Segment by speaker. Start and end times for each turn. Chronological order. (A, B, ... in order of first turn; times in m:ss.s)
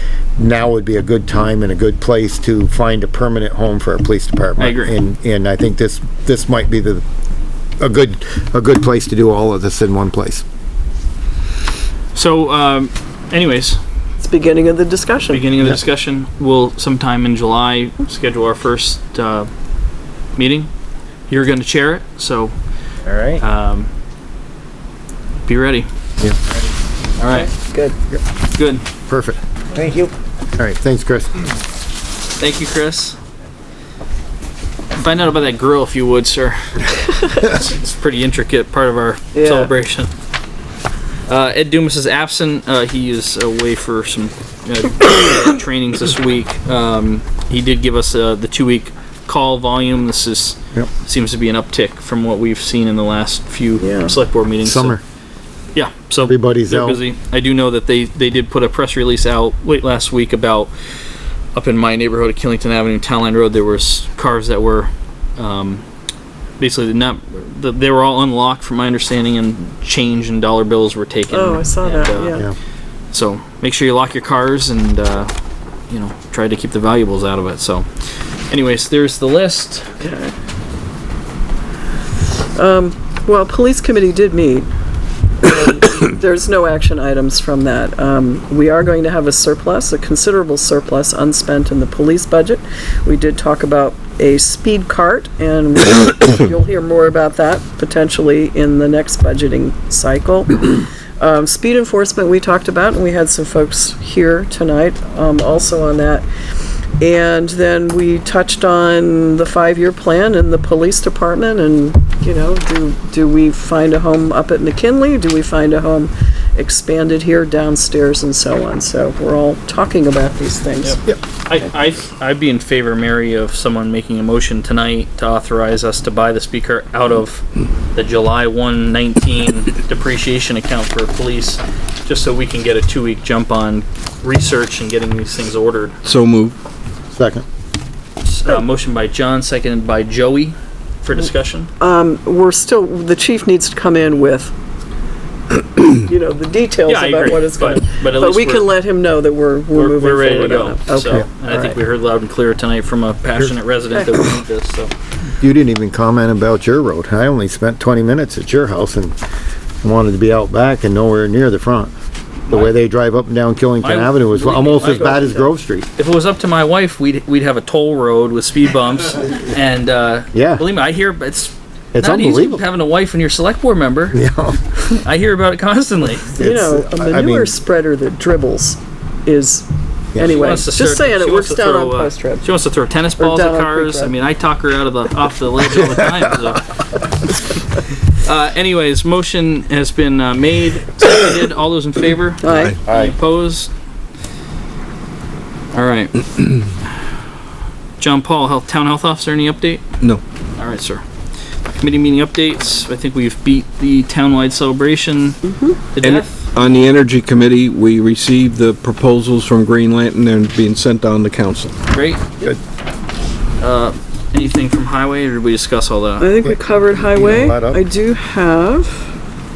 0:00.4-0:07.0 A
0:04.6-0:05.0 B
0:07.8-0:10.4 A
0:12.1-0:13.8 B
0:14.2-0:15.5 C
0:15.3-0:19.5 B
0:20.3-0:20.7 B
0:21.3-0:22.5 B
0:23.4-0:23.9 B
0:25.4-0:25.9 B
0:27.2-0:27.5 B
0:27.3-0:28.0 C
0:28.5-0:28.8 B
0:29.0-0:29.4 A
0:30.6-0:31.5 A
0:32.4-0:33.2 B
0:34.9-0:40.1 B
0:39.3-0:39.7 C
0:41.3-0:55.0 B
0:53.8-0:54.1 C
0:54.6-0:55.0 A
0:55.7-1:00.7 B
0:56.2-0:57.0 A
1:01.5-1:05.8 B
1:06.6-1:12.4 B
1:11.3-1:12.4 C
1:13.1-1:15.3 B
1:15.9-1:17.9 B
1:18.5-1:19.9 B
1:20.0-1:20.3 C
1:22.2-1:24.7 C
1:25.4-1:46.2 C
1:47.0-2:01.0 C
2:00.8-2:07.4 B
2:07.9-2:16.0 B
2:16.0-2:16.6 D
2:17.1-2:17.4 A
2:18.2-2:21.7 B
2:21.8-2:24.5 C
2:25.8-2:31.8 C
2:26.9-2:28.7 B
2:29.7-2:34.9 B
2:33.9-2:34.2 C
2:35.4-2:39.2 A
2:39.8-2:41.9 A
2:42.5-2:42.8 B
2:42.5-2:45.9 A
2:43.8-2:45.3 B
2:45.0-2:45.5 C
2:46.0-2:54.2 B
2:50.3-2:50.6 A
2:51.9-2:52.6 A
2:54.1-2:54.7 A
2:55.0-2:56.3 B
2:56.3-2:57.5 A
2:56.4-3:02.4 C
3:00.1-3:00.5 A
3:00.3-3:06.7 B
3:03.2-3:04.1 C
3:08.1-3:13.7 B
3:12.4-3:12.7 C
3:12.8-3:13.1 A
3:15.7-3:16.2 B
3:18.0-3:19.8 B
3:20.6-3:21.0 B
3:21.8-3:25.4 B
3:25.4-3:25.9 C
3:25.9-3:26.5 B
3:26.0-3:31.7 D
3:31.9-3:32.2 B
3:33.6-3:36.3 B
3:36.2-3:39.1 C
3:36.4-3:37.8 A